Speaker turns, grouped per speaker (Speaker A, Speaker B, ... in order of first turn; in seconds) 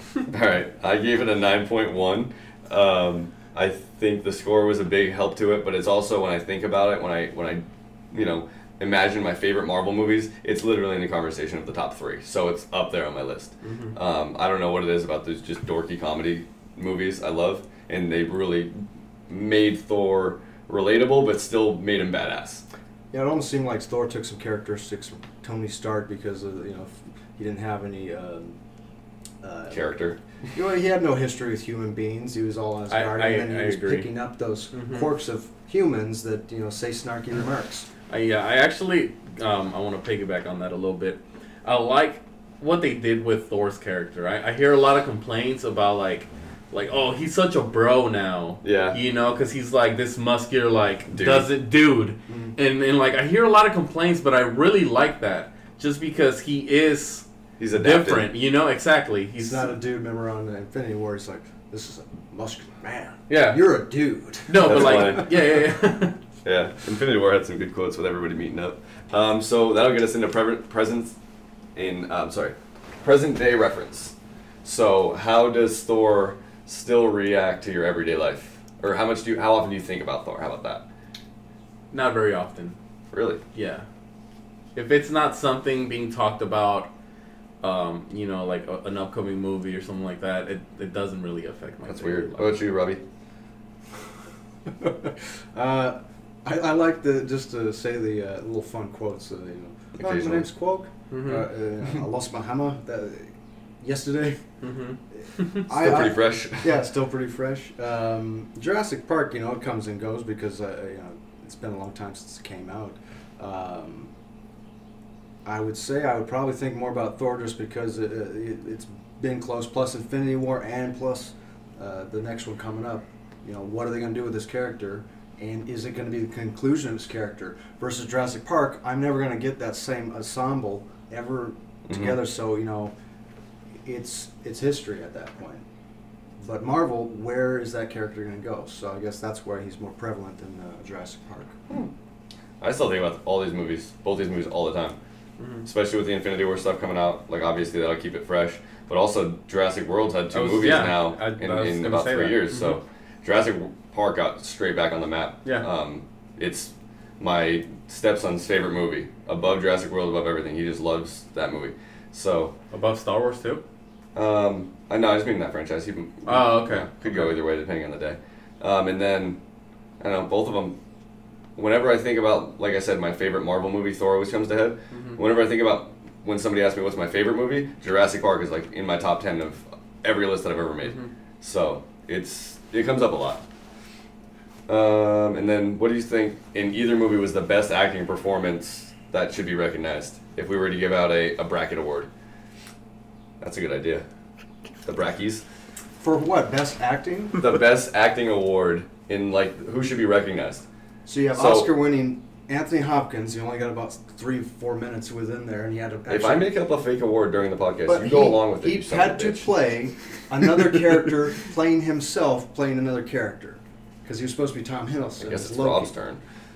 Speaker A: 0.3-22.6, 29.7-30.2, 48.6-49.0, 51.1-51.5, 57.6-58.3, 64.6-65.4, 66.5-71.2, 71.8-80.9, 83.1-83.4, 91.9-93.0, 100.0-100.5, 105.7-106.8, 131.9-132.2, 142.6-145.0, 145.7-162.6, 164.2-169.4, 170.0-170.8, 171.6-183.4, 184.7-192.1, 193.4-194.0, 194.8-195.4, 197.4-200.7, 201.3-201.7, 206.1-209.5, 215.2-216.2
Speaker B: 13.6-14.0, 32.9-34.1, 34.7-35.1, 38.1-57.3, 57.8-59.8, 63.3-63.7, 64.5-66.2, 81.9-82.8, 83.5-83.8, 84.8-86.9, 87.6-92.6, 101.1-101.5, 104.6-105.7, 145.4-145.7, 150.3-152.8, 162.7-163.6, 166.2-167.3, 174.9-175.2, 180.8-181.1
Speaker C: 23.1-28.6, 29.4-29.9, 30.5-37.9, 52.3-52.5, 59.4-65.6, 94.7-104.4, 105.7-114.1, 115.5-132.9, 133.8-135.7, 136.4-141.6, 196.0-197.4, 201.1-206.5, 207.9-215.9